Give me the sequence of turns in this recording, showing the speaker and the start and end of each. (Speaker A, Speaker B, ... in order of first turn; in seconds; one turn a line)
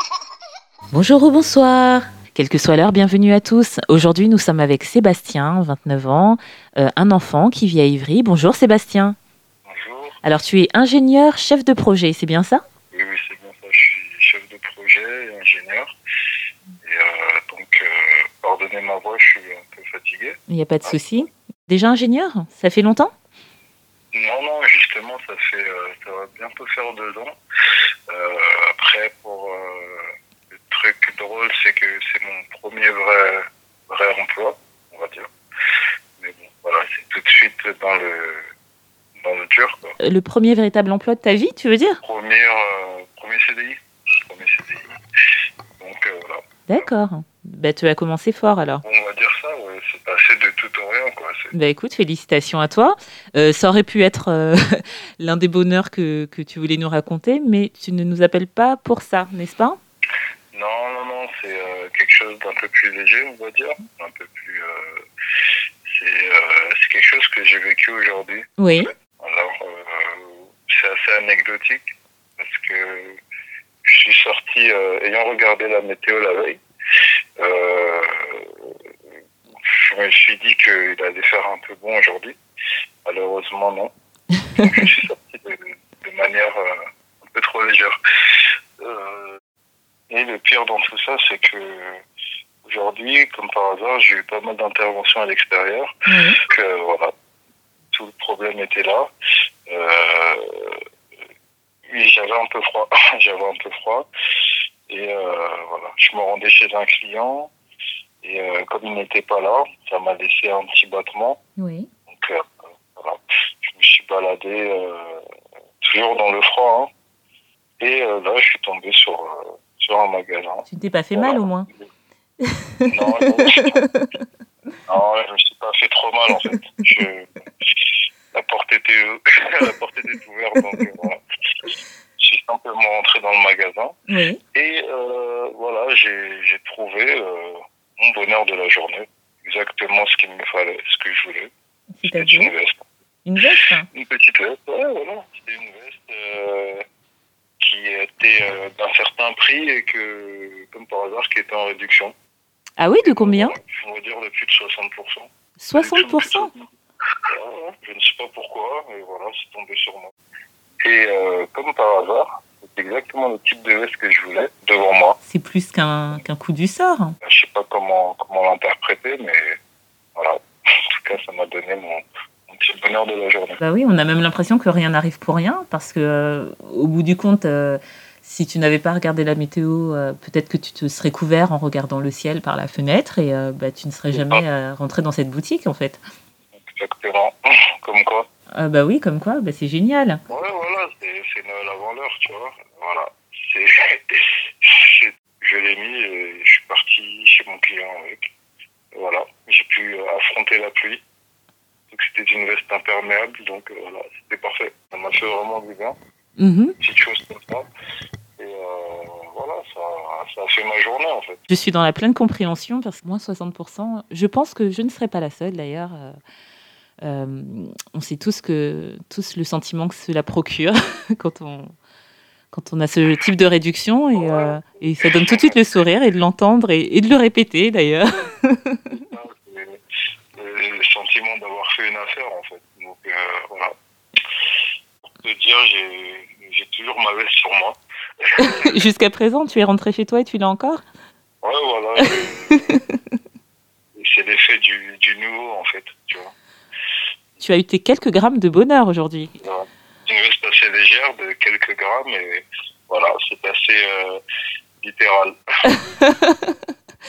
Speaker A: 0.9-9.2
Speaker B: 9.7-10.2
Speaker A: 10.2-12.6
Speaker B: 12.9-15.9
Speaker B: 16.8-21.3
Speaker A: 20.5-23.1
Speaker B: 24.1-27.3
Speaker B: 28.1-35.3
Speaker B: 36.2-38.5
Speaker B: 39.2-39.9
Speaker A: 40.0-42.0
Speaker B: 42.0-44.9
Speaker B: 45.8-46.9
Speaker A: 46.7-48.8
Speaker B: 48.8-51.5
Speaker A: 51.5-59.8
Speaker B: 60.5-65.0
Speaker B: 65.9-71.9
Speaker A: 68.6-68.9
Speaker B: 72.4-73.2
Speaker B: 73.8-76.6
Speaker B: 77.4-78.7
Speaker B: 79.7-82.4
Speaker B: 83.0-83.9
Speaker A: 84.3-84.7
Speaker B: 84.5-88.0
Speaker B: 88.8-89.4
Speaker B: 90.1-92.0
Speaker B: 92.7-95.9
Speaker A: 96.1-96.4
Speaker B: 96.5-97.1
Speaker B: 97.9-99.1
Speaker B: 99.7-100.8
Speaker B: 101.9-104.1
Speaker B: 104.9-107.5
Speaker B: 108.2-111.4
Speaker A: 111.6-111.9
Speaker B: 112.1-115.2
Speaker B: 115.8-116.9
Speaker B: 117.8-121.9
Speaker A: 120.7-121.7
Speaker A: 122.4-124.1
Speaker B: 122.9-123.8
Speaker B: 124.9-131.2
Speaker B: 132.2-133.9
Speaker A: 134.1-134.4
Speaker B: 134.5-141.5
Speaker A: 141.9-142.5
Speaker B: 142.1-142.8
Speaker A: 143.2-143.9
Speaker B: 143.9-146.8
Speaker B: 147.6-152.1
Speaker A: 152.8-153.5
Speaker B: 153.0-156.7
Speaker A: 155.6-156.5
Speaker B: 157.3-160.1
Speaker B: 160.8-165.2
Speaker A: 165.2-167.2
Speaker B: 167.2-169.6
Speaker B: 171.0-173.6
Speaker A: 173.6-186.0
Speaker B: 184.1-184.4
Speaker B: 186.6-188.3
Speaker A: 188.5-190.2
Speaker B: 190.3-198.3
Speaker B: 198.9-201.0
Speaker B: 201.9-206.0
Speaker A: 206.4-206.8
Speaker B: 206.8-207.6
Speaker B: 208.4-211.4
Speaker A: 211.5-216.2
Speaker A: 217.0-221.8
Speaker A: 222.5-228.8
Speaker B: 224.2-225.6
Speaker B: 228.9-229.8
Speaker B: 230.4-233.7
Speaker B: 235.1-238.8
Speaker A: 238.4-240.8
Speaker B: 241.4-242.6
Speaker A: 242.0-243.0
Speaker B: 244.0-246.3
Speaker A: 247.4-249.3
Speaker B: 249.4-254.2
Speaker B: 254.8-255.3
Speaker A: 255.7-256.6